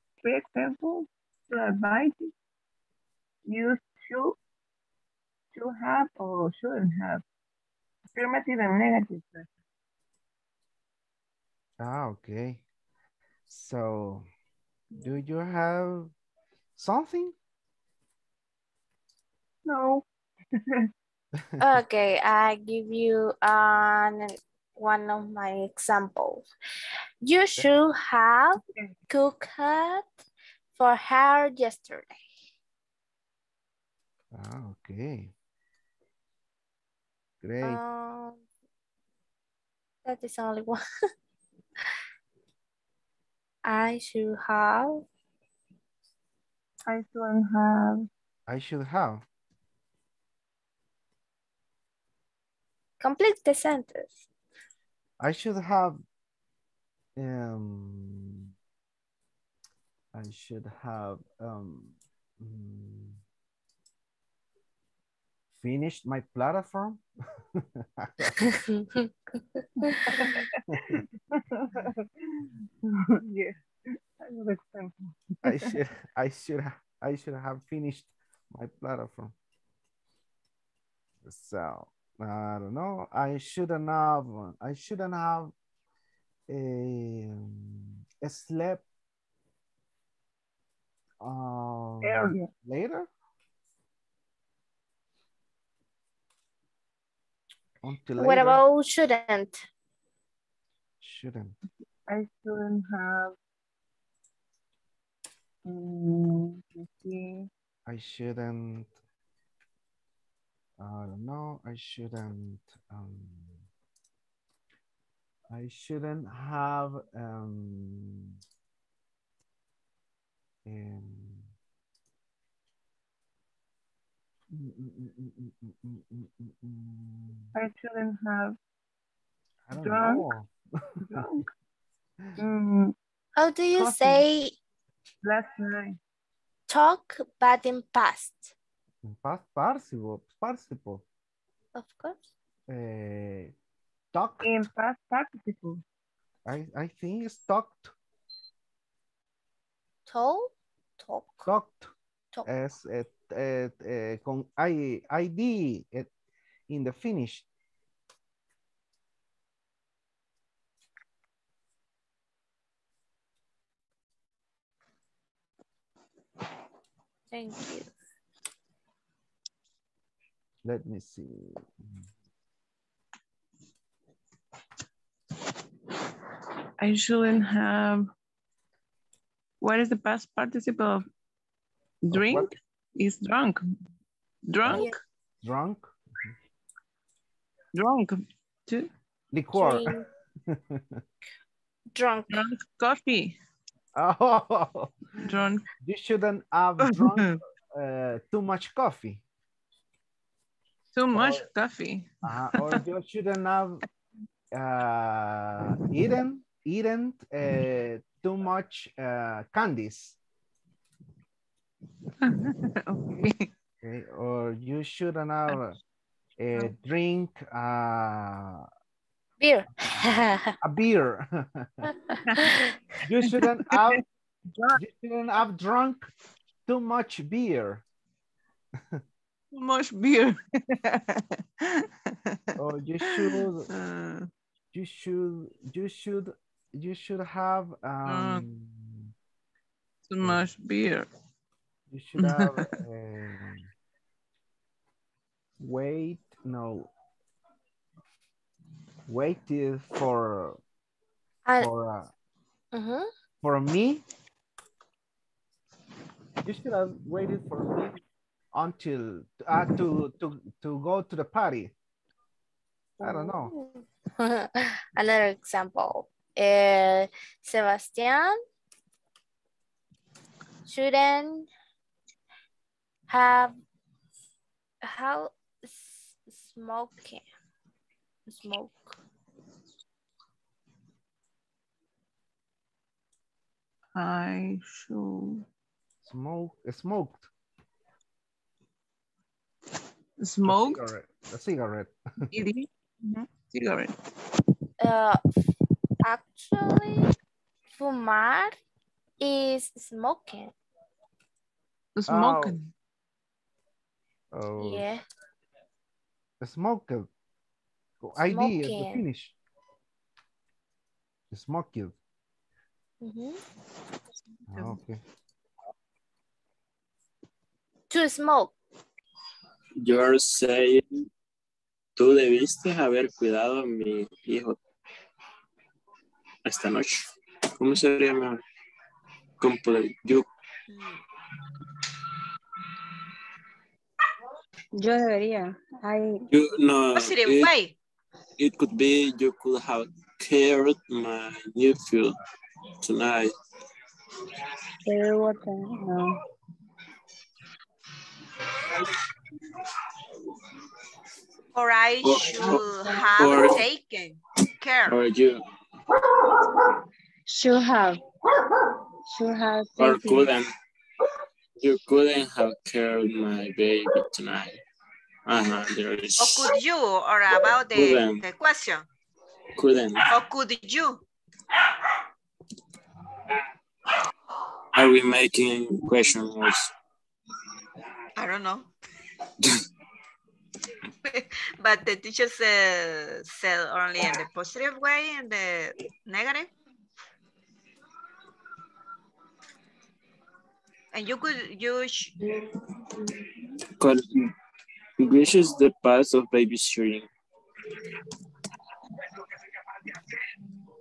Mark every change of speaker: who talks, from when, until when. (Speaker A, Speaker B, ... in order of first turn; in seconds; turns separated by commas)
Speaker A: 0.2-2.3, Speaker A: 3.5-4.4, Speaker A: 5.5-7.2, Speaker A: 8.2-9.5, Speaker B: 11.8-12.6, Speaker B: 13.5-14.3, Speaker B: 15.0-16.1, Speaker B: 16.8-17.4, Speaker A: 19.7-20.0, Speaker C: 21.6-26.5, Speaker C: 27.2-30.1, Speaker C: 30.8-32.2, Speaker B: 34.3-35.3, Speaker B: 37.4-37.8, Speaker C: 37.6-38.4, Speaker C: 40.0-40.8, Speaker C: 43.6-45.0, Speaker A: 46.9-48.1, Speaker B: 48.5-49.2, Speaker C: 53.0-54.2, Speaker B: 55.2-56.0, Speaker B: 57.2-58.5, Speaker B: 60.1-63.2, Speaker B: 65.6-67.0, Speaker B: 67.5-68.4, Speaker C: 68.4-70.4, Speaker A: 70.1-73.6, Speaker A: 74.2-75.8, Speaker B: 75.4-79.3, Speaker B: 81.2-85.5, Speaker B: 86.5-88.8, Speaker B: 91.2-93.1, Speaker A: 92.0-92.5, Speaker B: 97.8-98.6, Speaker C: 98.2-99.7, Speaker B: 101.0-101.6, Speaker A: 102.1-103.3, Speaker A: 105.7-107.5, Speaker B: 107.9-108.9, Speaker B: 110.8-113.7, Speaker B: 115.5-118.4, Speaker B: 120.7-121.5, Speaker B: 124.5-127.5, Speaker A: 127.5-128.6, Speaker B: 129.7-131.1, Speaker A: 129.8-130.2, Speaker A: 131.0-131.5, Speaker A: 132.4-132.9, Speaker C: 133.4-134.6, Speaker A: 133.8-134.2, Speaker A: 135.2-136.0, Speaker C: 136.7-138.5, Speaker B: 139.0-141.0, Speaker C: 141.8-142.3, Speaker B: 142.7-143.5, Speaker B: 144.1-144.5, Speaker A: 144.4-145.8, Speaker B: 146.4-147.9, Speaker C: 150.1-151.5, Speaker B: 151.5-151.9, Speaker B: 152.5-156.1, Speaker B: 156.7-157.5, Speaker C: 167.3-167.9, Speaker B: 170.6-172.1, Speaker A: 176.8-178.1, Speaker A: 179.6-181.1, Speaker A: 182.0-183.6, Speaker B: 182.2-182.5, Speaker A: 184.5-185.0, Speaker C: 184.7-185.0, Speaker B: 185.4-186.3, Speaker A: 187.7-188.9, Speaker B: 189.3-189.9, Speaker C: 189.6-190.0, Speaker B: 190.5-191.0, Speaker C: 191.9-192.3, Speaker A: 192.3-193.4, Speaker B: 193.9-194.9, Speaker A: 195.3-195.7, Speaker B: 195.8-199.2, Speaker A: 196.8-197.4, Speaker A: 200.9-202.8, Speaker B: 201.1-201.4, Speaker B: 202.2-203.8, Speaker B: 204.5-210.2, Speaker A: 212.2-213.5, Speaker B: 213.8-215.8, Speaker B: 216.4-218.7, Speaker C: 219.4-220.6, Speaker B: 220.6-221.9, Speaker C: 222.4-222.7, Speaker B: 223.1-224.0, Speaker A: 223.7-224.0, Speaker B: 224.8-226.1, Speaker B: 226.7-227.8, Speaker A: 229.5-234.3, Speaker B: 232.6-233.7, Speaker B: 234.7-239.1, Speaker A: 238.1-238.5, Speaker A: 240.1-241.1, Speaker B: 240.2-240.5, Speaker B: 241.9-243.7, Speaker A: 242.2-242.7, Speaker B: 245.6-246.9, Speaker B: 249.1-250.6, Speaker B: 251.6-252.1, Speaker C: 252.7-253.1, Speaker B: 253.4-254.0, Speaker B: 256.4-258.0, Speaker B: 258.5-261.7, Speaker B: 263.0-263.5, Speaker C: 263.0-268.4, Speaker C: 270.7-271.5, Speaker C: 273.1-273.6, Speaker C: 274.8-277.2, Speaker C: 278.3-279.0, Speaker A: 283.9-285.4, Speaker B: 286.0-287.3, Speaker A: 290.2-290.9, Speaker B: 290.5-292.2, Speaker A: 292.3-293.9, Speaker C: 294.8-295.2, Speaker C: 296.0-297.1, Speaker C: 297.7-298.6, Speaker C: 299.2-300.5, Speaker A: 301.9-302.7, Speaker B: 302.1-302.6, Speaker B: 304.3-304.9, Speaker C: 304.6-305.0, Speaker B: 306.4-307.1, Speaker B: 308.0-309.4, Speaker C: 308.2-309.1, Speaker B: 311.3-312.0, Speaker C: 313.0-313.4, Speaker B: 314.5-315.0, Speaker C: 317.9-318.5, Speaker D: 319.8-321.1, Speaker D: 322.0-324.6, Speaker D: 326.4-327.1, Speaker D: 327.6-328.4, Speaker D: 329.4-330.3, Speaker E: 334.8-336.2, Speaker D: 336.3-337.5, Speaker F: 336.9-337.8, Speaker D: 338.4-342.1, Speaker D: 342.8-343.3, Speaker E: 344.9-346.1, Speaker F: 351.6-355.0, Speaker D: 352.0-353.7, Speaker D: 354.9-355.4, Speaker E: 357.3-358.0, Speaker E: 359.1-360.3, Speaker D: 359.8-360.5, Speaker D: 361.6-364.6, Speaker D: 365.3-366.6, Speaker F: 366.2-368.9, Speaker D: 367.7-368.2, Speaker D: 369.6-370.1, Speaker F: 370.1-371.0, Speaker D: 374.7-376.7, Speaker F: 378.2-378.7, Speaker F: 381.1-386.5, Speaker F: 390.9-392.1, Speaker D: 393.8-394.3, Speaker D: 395.0-397.1